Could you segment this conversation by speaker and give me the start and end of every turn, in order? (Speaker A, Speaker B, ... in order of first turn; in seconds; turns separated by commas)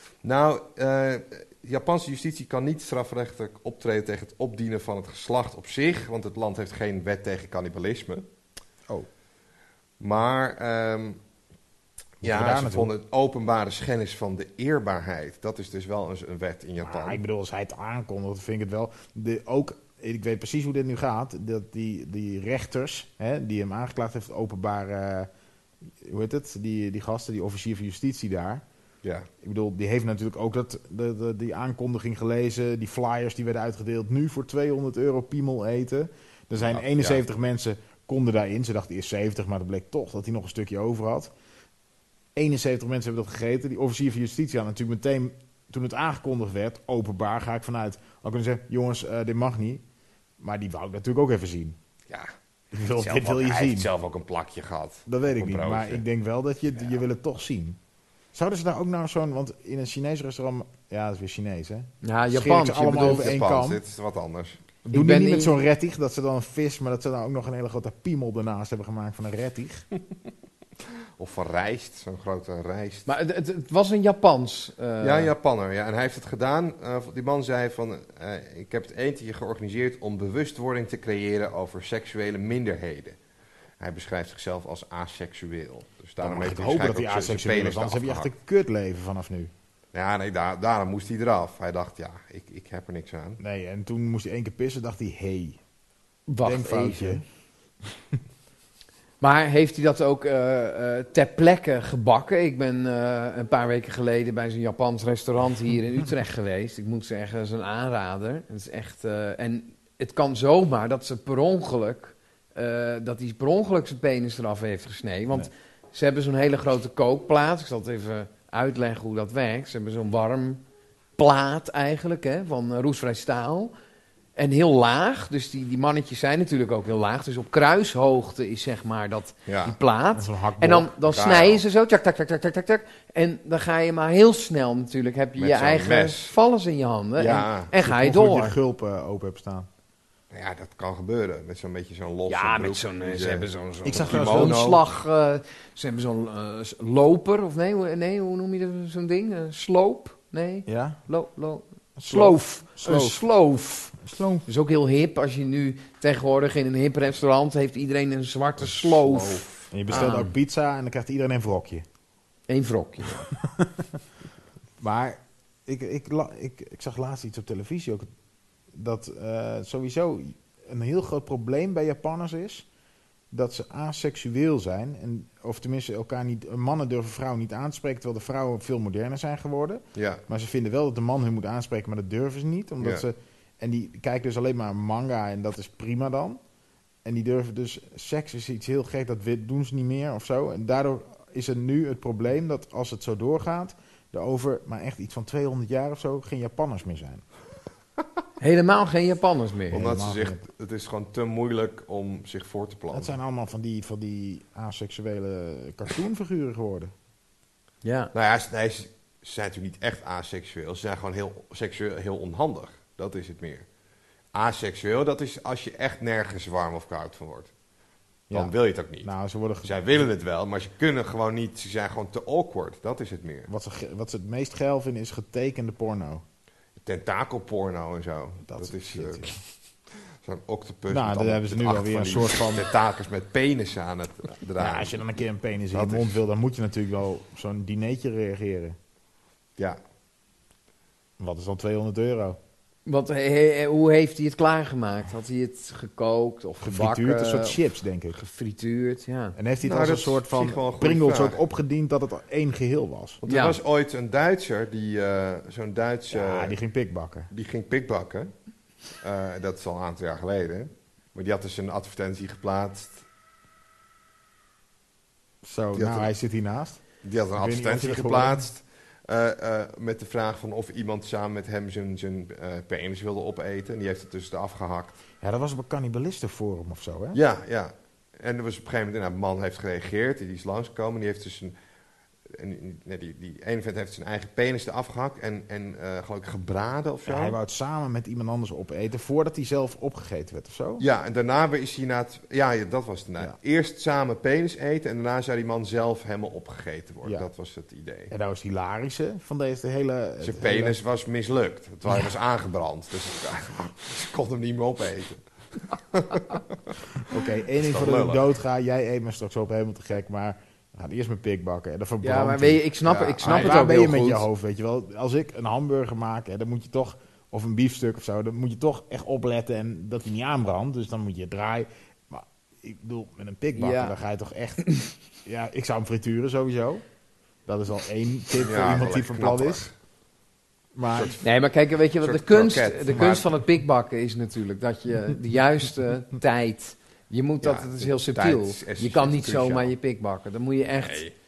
Speaker A: 0.2-8.3, Speaker A: 10.0-11.2, Speaker A: 12.2-17.2, Speaker B: 12.2-12.9, Speaker B: 16.8-25.3, Speaker B: 26.0-28.6, Speaker A: 29.0-29.3, Speaker B: 29.4-41.3, Speaker A: 36.7-37.2, Speaker B: 42.3-49.8, Speaker B: 50.4-51.8, Speaker B: 52.7-53.9, Speaker A: 53.0-56.0, Speaker B: 55.1-57.8, Speaker B: 58.3-63.8, Speaker C: 62.0-63.3, Speaker A: 62.8-64.6, Speaker B: 64.8-69.8, Speaker C: 64.9-65.5, Speaker A: 71.2-73.1, Speaker C: 73.1-75.3, Speaker A: 75.0-83.2, Speaker A: 83.8-88.3, Speaker B: 86.2-89.5, Speaker A: 89.9-93.4, Speaker B: 93.4-95.6, Speaker C: 96.3-97.2, Speaker B: 96.4-97.2, Speaker C: 99.2-120.6, Speaker C: 121.2-123.7, Speaker C: 124.3-138.6, Speaker A: 129.5-129.8, Speaker B: 130.2-130.9, Speaker A: 131.1-131.6, Speaker A: 135.4-136.3, Speaker A: 137.2-137.7, Speaker B: 137.8-139.7, Speaker A: 140.3-143.5, Speaker C: 142.3-153.9, Speaker B: 143.8-144.6, Speaker A: 144.0-144.8, Speaker B: 150.7-151.0, Speaker B: 152.0-153.2, Speaker B: 154.0-154.4, Speaker C: 154.4-160.3, Speaker A: 158.6-159.7, Speaker B: 159.7-161.8, Speaker C: 162.5-163.3, Speaker B: 163.4-163.9, Speaker B: 164.8-168.1, Speaker B: 168.7-172.7, Speaker B: 173.3-186.4, Speaker A: 179.9-180.2, Speaker B: 187.0-197.2, Speaker C: 198.4-199.8, Speaker B: 199.7-200.4, Speaker A: 199.7-203.1, Speaker B: 202.9-206.9, Speaker C: 207.8-208.1, Speaker A: 208.1-213.7, Speaker A: 214.3-217.5, Speaker B: 218.3-220.1, Speaker A: 218.3-223.5, Speaker B: 223.5-226.2, Speaker A: 226.8-229.4, Speaker B: 228.5-229.4, Speaker A: 230.2-235.0, Speaker B: 230.9-232.7, Speaker B: 234.6-238.8, Speaker A: 235.7-236.2, Speaker B: 241.2-242.4, Speaker C: 242.8-247.6, Speaker B: 246.6-248.2, Speaker C: 248.1-249.4, Speaker B: 249.3-253.2, Speaker A: 249.6-251.4, Speaker A: 253.2-256.6, Speaker C: 253.3-253.6, Speaker B: 256.1-257.3, Speaker A: 257.3-258.3, Speaker A: 258.9-263.0, Speaker B: 265.4-266.8, Speaker A: 265.7-266.1, Speaker A: 267.0-275.0, Speaker B: 267.3-268.4, Speaker B: 275.2-277.2, Speaker A: 277.1-281.5, Speaker A: 282.3-287.4, Speaker B: 287.1-290.8, Speaker A: 290.8-298.1, Speaker B: 298.1-300.8, Speaker A: 300.2-306.6, Speaker B: 307.1-312.6, Speaker A: 307.1-308.3, Speaker C: 312.0-314.2, Speaker A: 312.8-313.6, Speaker B: 313.2-324.6, Speaker C: 323.6-323.9, Speaker B: 325.2-326.8, Speaker B: 327.4-329.7, Speaker A: 328.4-329.7, Speaker B: 330.7-331.2, Speaker A: 330.9-331.2, Speaker C: 331.2-341.1, Speaker A: 332.0-333.3, Speaker A: 337.4-339.7, Speaker A: 340.8-341.1